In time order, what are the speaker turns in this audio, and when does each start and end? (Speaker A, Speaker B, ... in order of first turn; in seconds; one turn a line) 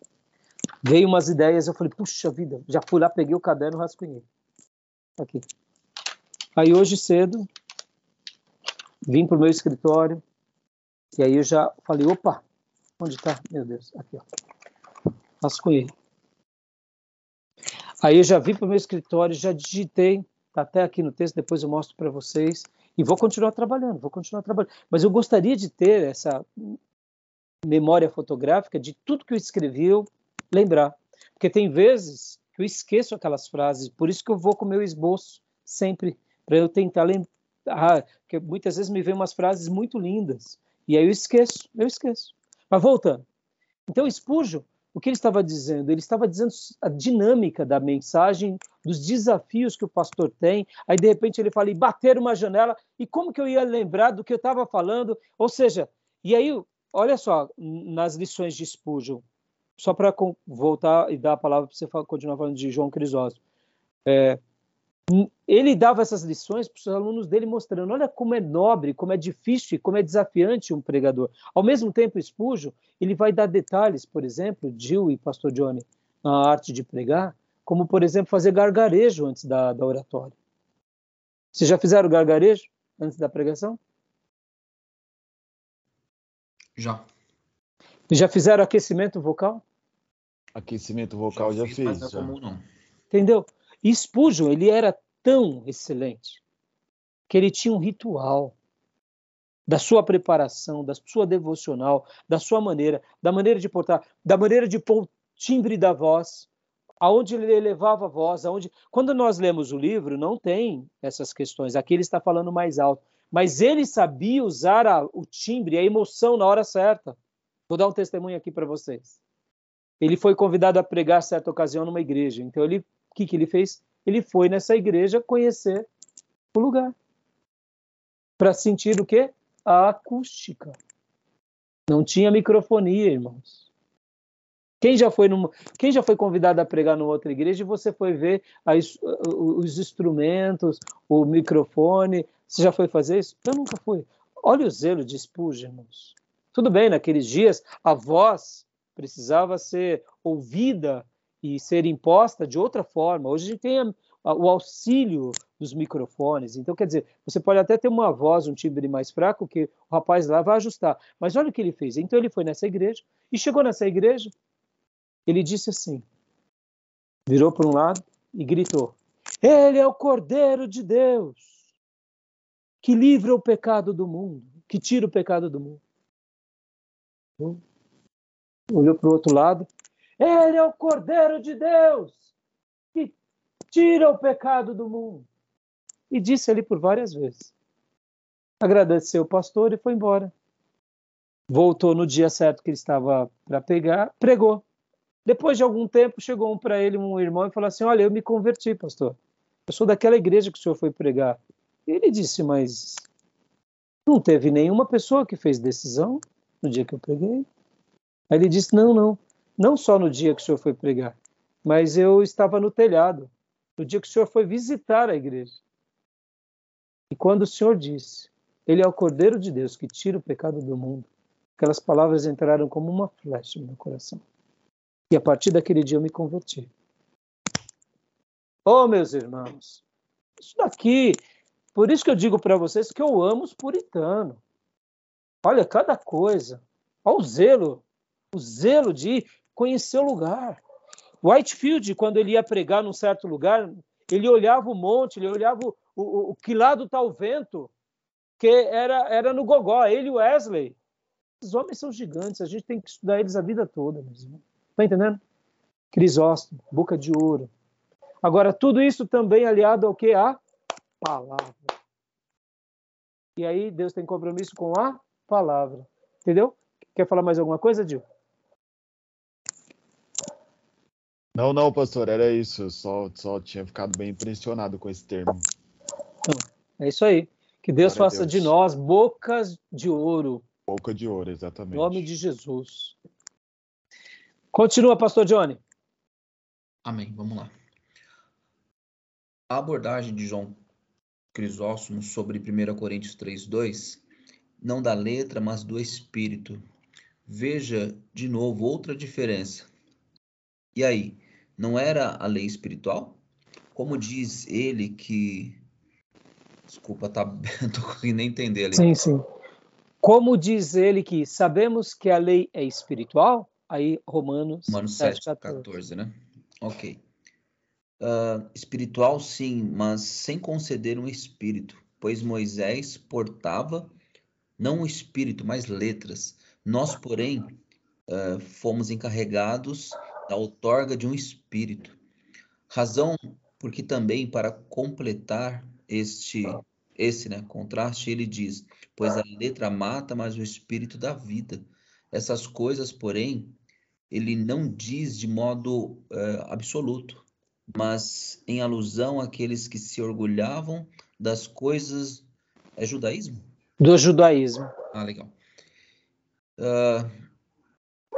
Speaker A: 0.8-4.2
Speaker A: 5.2-5.4
Speaker A: 6.6-7.5
Speaker A: 9.1-10.2
Speaker A: 11.2-12.4
Speaker A: 13.0-14.2
Speaker A: 15.4-15.9
Speaker A: 18.0-26.8
Speaker A: 27.7-43.2
Speaker A: 43.9-59.2
Speaker A: 59.8-63.4
Speaker A: 64.1-64.4
Speaker A: 65.1-80.3
Speaker A: 81.5-83.8
Speaker B: 86.8-87.0
Speaker A: 88.1-89.6
Speaker C: 90.5-92.3
Speaker B: 91.3-92.6
Speaker A: 93.1-96.4
Speaker A: 97.3-98.5
Speaker A: 99.7-106.5
Speaker A: 107.0-117.2
Speaker A: 117.7-119.2
Speaker A: 120.0-125.9
Speaker A: 126.5-126.9
Speaker A: 128.4-130.8
Speaker A: 131.9-133.6
Speaker A: 134.8-164.3
Speaker A: 165.2-166.0
Speaker A: 167.3-171.5
Speaker A: 172.8-175.8
Speaker A: 178.7-179.7
Speaker A: 180.2-182.3
Speaker A: 183.7-185.3
Speaker A: 186.1-187.5
Speaker A: 188.6-190.3
Speaker A: 191.5-194.6
Speaker A: 195.2-199.2
Speaker A: 199.7-203.0
Speaker A: 204.1-207.4
Speaker A: 208.3-215.6
Speaker A: 217.1-224.2
Speaker A: 225.1-226.7
Speaker A: 228.7-229.8
Speaker A: 230.4-231.2
Speaker A: 231.7-234.4
Speaker A: 235.4-240.6
Speaker A: 241.2-247.7
Speaker A: 248.4-250.8
Speaker A: 251.4-255.2
Speaker A: 255.9-257.5
Speaker A: 258.2-260.4
Speaker A: 261.0-261.7
Speaker A: 263.4-268.0
Speaker C: 271.4-275.4
Speaker A: 276.2-280.4
Speaker C: 277.8-278.5
Speaker C: 280.7-282.1
Speaker A: 281.7-282.9
Speaker A: 284.5-285.6
Speaker B: 286.8-287.5
Speaker B: 289.5-290.6
Speaker B: 291.3-294.0
Speaker B: 294.6-296.6
Speaker B: 297.2-299.7
Speaker B: 300.7-303.2
Speaker B: 303.7-305.6
Speaker B: 306.7-308.9
Speaker A: 308.7-309.2
Speaker A: 310.0-315.7
Speaker B: 314.7-317.0
Speaker B: 318.0-323.9
Speaker B: 324.6-332.0
Speaker B: 332.7-343.6
Speaker B: 344.1-352.2
Speaker B: 352.8-353.4
Speaker A: 353.8-354.7
Speaker B: 354.9-355.3
Speaker B: 356.6-357.1